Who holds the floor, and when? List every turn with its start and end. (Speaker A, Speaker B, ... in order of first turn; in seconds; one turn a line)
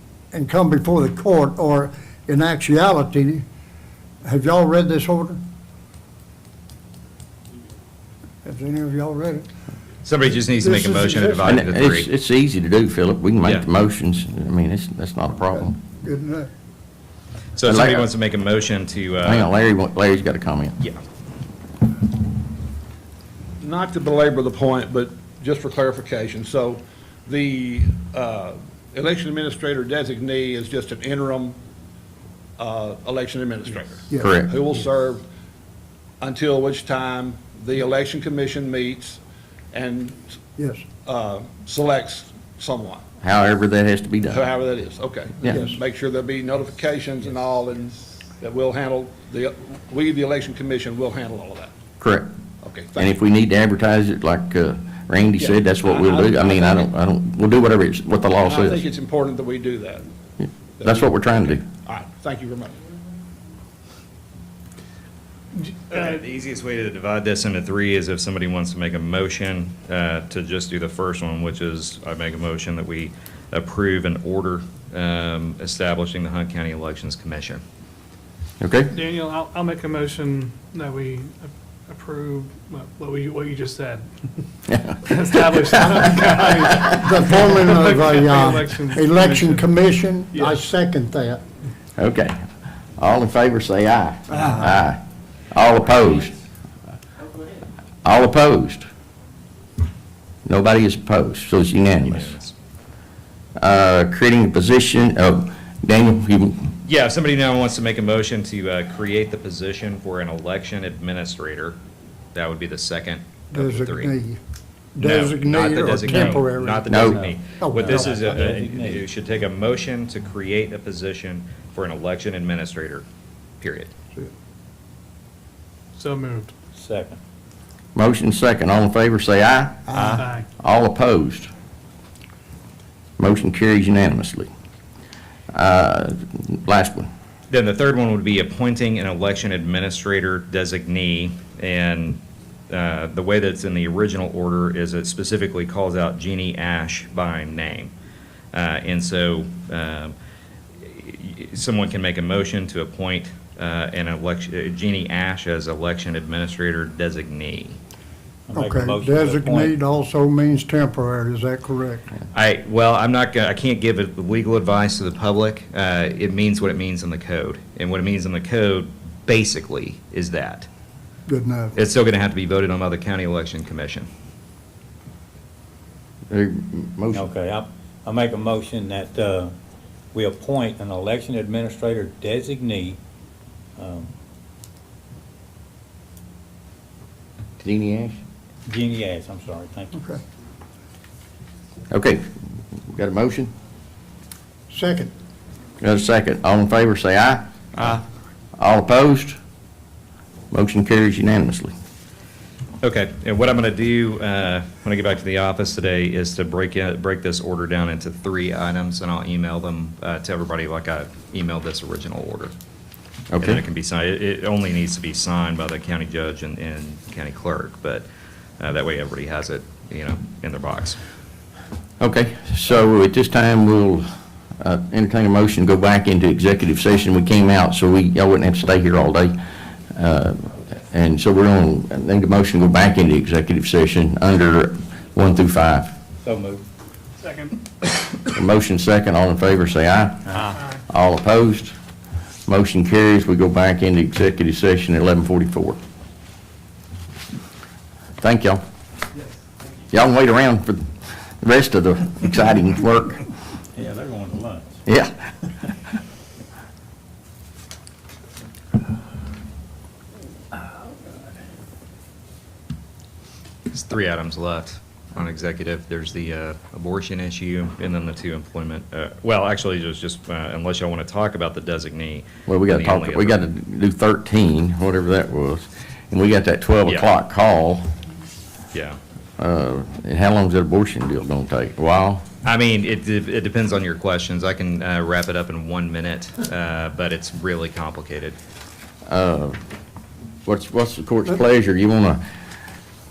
Speaker A: 0.3-3.4
Speaker A: 4.2-5.4
Speaker A: 8.4-9.5
Speaker B: 10.0-12.1
Speaker A: 10.6-11.6
Speaker C: 11.4-15.7
Speaker A: 16.0-16.5
Speaker B: 17.6-19.5
Speaker C: 17.6-18.1
Speaker C: 19.2-20.7
Speaker D: 23.6-31.6
Speaker D: 32.6-35.2
Speaker C: 34.2-34.5
Speaker D: 36.2-39.2
Speaker D: 39.7-40.4
Speaker A: 40.6-40.8
Speaker D: 41.0-43.0
Speaker C: 43.2-44.4
Speaker D: 44.3-51.7
Speaker A: 45.5-45.8
Speaker C: 52.0-52.3
Speaker D: 52.6-53.1
Speaker C: 53.0-58.8
Speaker D: 55.4-56.9
Speaker D: 58.4-60.0
Speaker D: 60.8-61.1
Speaker C: 60.8-61.6
Speaker D: 61.8-62.7
Speaker E: 65.6-66.2
Speaker B: 65.9-77.6
Speaker C: 78.6-78.9
Speaker E: 78.9-84.0
Speaker C: 84.7-85.0
Speaker E: 85.0-89.7
Speaker A: 85.9-91.4
Speaker E: 90.3-90.6
Speaker C: 92.0-92.4
Speaker C: 93.0-96.3
Speaker C: 98.0-98.8
Speaker C: 100.5-102.3
Speaker B: 102.0-102.5
Speaker C: 103.6-106.7
Speaker B: 106.8-111.8
Speaker B: 112.3-114.1
Speaker A: 113.5-114.4
Speaker A: 115.0-118.4
Speaker B: 115.0-123.0
Speaker F: 116.1-116.4
Speaker C: 116.9-117.2
Speaker F: 117.7-119.0
Speaker B: 123.6-123.9
Speaker E: 126.0-126.5
Speaker F: 126.8-127.2
Speaker C: 127.9-131.5
Speaker A: 129.9-130.2
Speaker E: 130.1-130.4
Speaker C: 133.2-134.5
Speaker C: 135.5-137.1
Speaker B: 137.5-147.9
Speaker B: 148.5-150.1
Speaker B: 150.8-157.8
Speaker F: 158.5-159.7
Speaker A: 158.5-162.0
Speaker B: 162.3-170.7
Speaker A: 171.3-171.7
Speaker B: 171.7-174.1
Speaker C: 176.3-177.2
Speaker F: 177.1-179.5
Speaker F: 180.1-183.0
Speaker F: 183.8-184.1
Speaker C: 187.6-188.2
Speaker F: 188.7-189.9
Speaker A: 189.9-190.2
Speaker C: 191.9-192.2
Speaker C: 192.9-193.5
Speaker A: 194.7-195.1
Speaker C: 195.8-197.9
Speaker C: 198.6-199.4
Speaker C: 200.5-201.7
Speaker B: 202.8-212.5
Speaker C: 213.3-213.6
Speaker B: 213.4-218.1
Speaker B: 218.6-221.0
Speaker C: 222.0-224.0
Speaker C: 224.6-229.4
Speaker C: 229.9-235.9
Speaker F: 236.2-236.6
Speaker E: 237.2-237.5
Speaker C: 238.3-241.7
Speaker C: 242.5-245.8
Speaker C: 248.2-248.6
Speaker C: 249.9-253.2
Speaker F: 253.7-254.8
Speaker C: 254.8-255.1
Speaker B: 263.7-273.4
Speaker C: 272.5-277.8
Speaker B: 278.7-279.0
Speaker C: 279.4-282.2
Speaker B: 282.4-288.4
Speaker C: 289.1-289.6
Speaker C: 290.4-292.2